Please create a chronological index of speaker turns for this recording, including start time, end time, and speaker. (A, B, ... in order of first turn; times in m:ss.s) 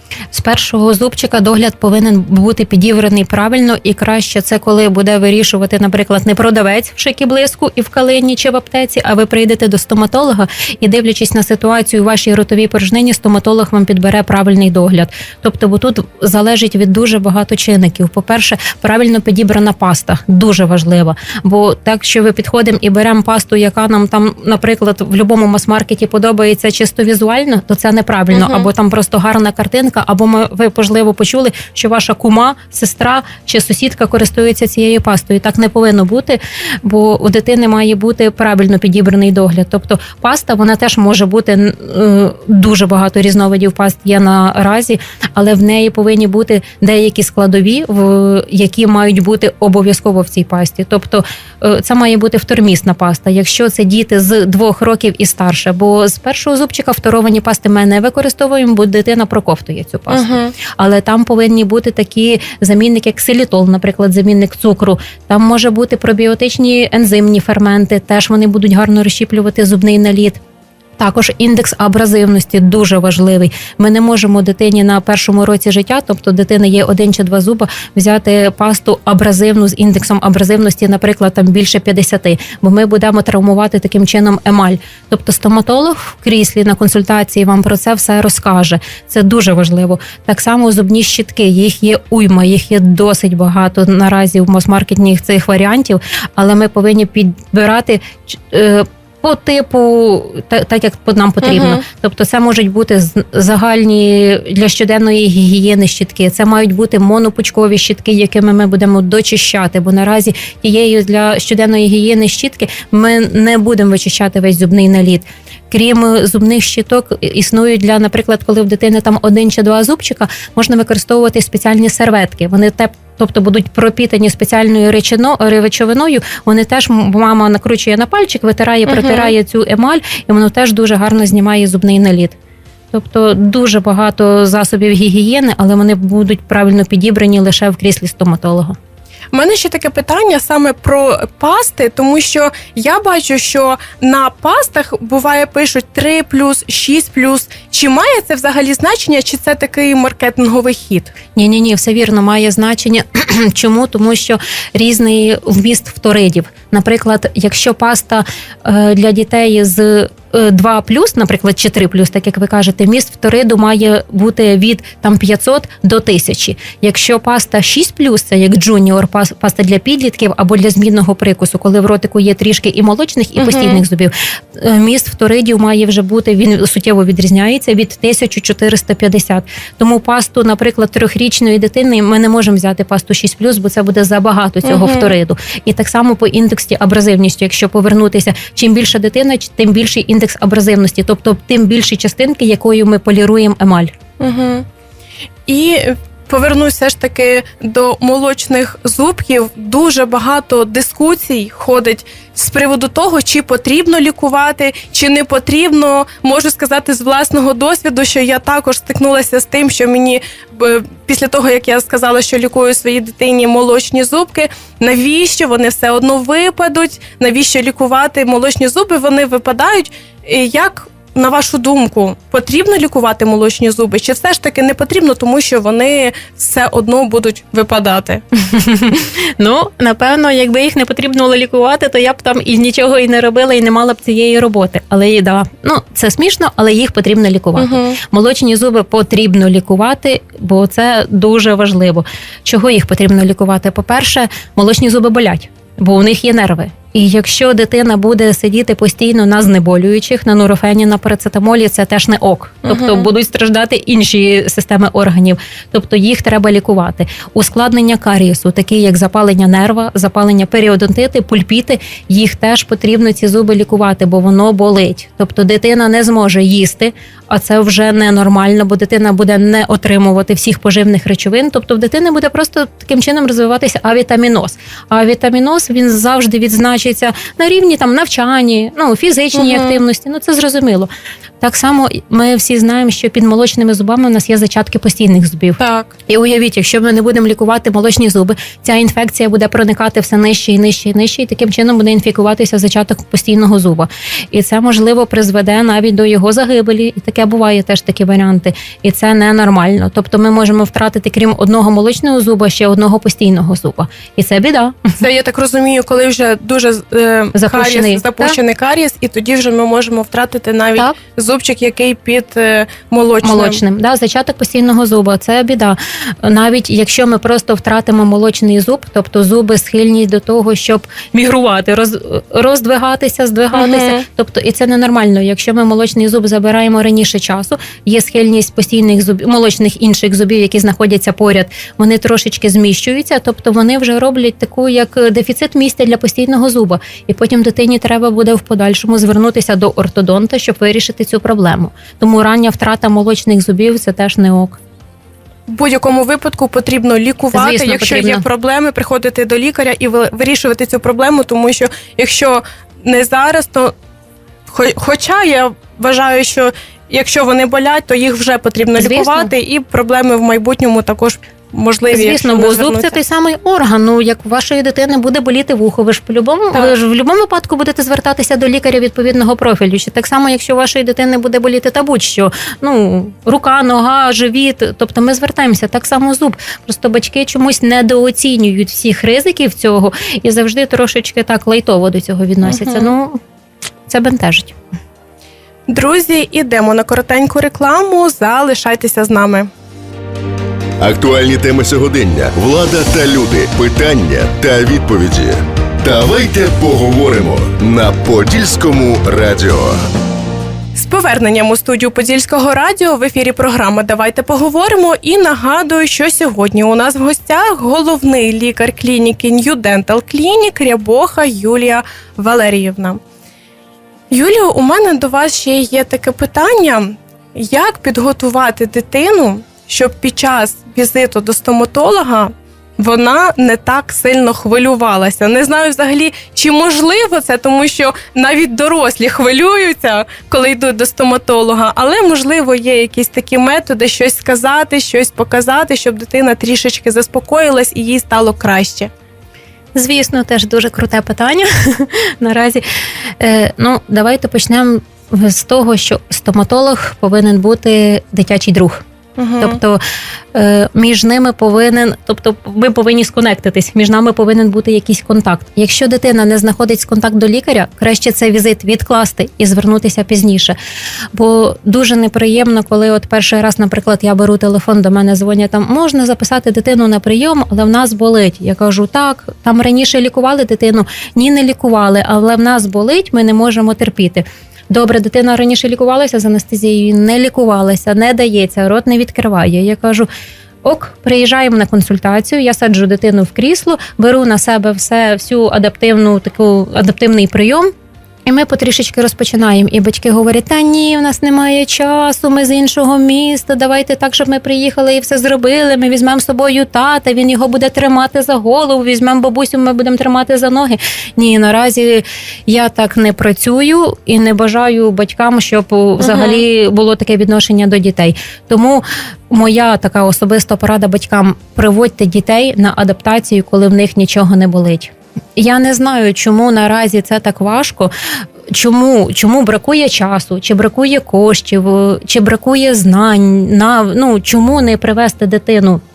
0:00.3-1:10.4 A
0:28.3-0:28.7 B
1:00.1-1:00.5 B
1:11.0-2:12.4 A
1:41.4-1:41.8 B
2:08.9-2:09.3 B
2:12.9-2:18.8 A
2:19.3-2:31.1 B
2:31.3-3:14.0 A
2:53.4-2:53.8 B
3:04.6-3:05.1 B
3:14.2-3:14.6 B
3:15.4-3:48.2 B
3:48.4-5:05.0 A
3:57.6-3:58.0 B
4:12.6-4:13.1 B
4:39.3-4:39.8 B
4:45.6-4:45.9 B
5:05.0-5:13.6 B
5:07.3-5:08.4 A
5:13.2-5:44.6 A
5:23.5-5:24.0 B
5:45.5-5:53.7 B
5:47.3-5:48.2 A
5:54.5-6:03.0 B
5:58.8-5:59.3 A
6:01.9-6:23.2 A
6:22.4-6:22.9 B
6:23.9-6:24.5 A
6:25.7-6:29.5 B
6:30.8-6:39.8 C
6:40.7-6:53.0 B
6:54.1-7:18.9 B
7:19.7-7:28.8 A
7:29.2-7:29.6 B
7:29.4-7:29.8 A
7:30.3-7:40.5 A
7:41.1-8:00.1 A
8:00.6-8:07.7 A
8:08.2-8:37.9 A
8:26.0-8:26.4 B
8:38.5-8:45.8 A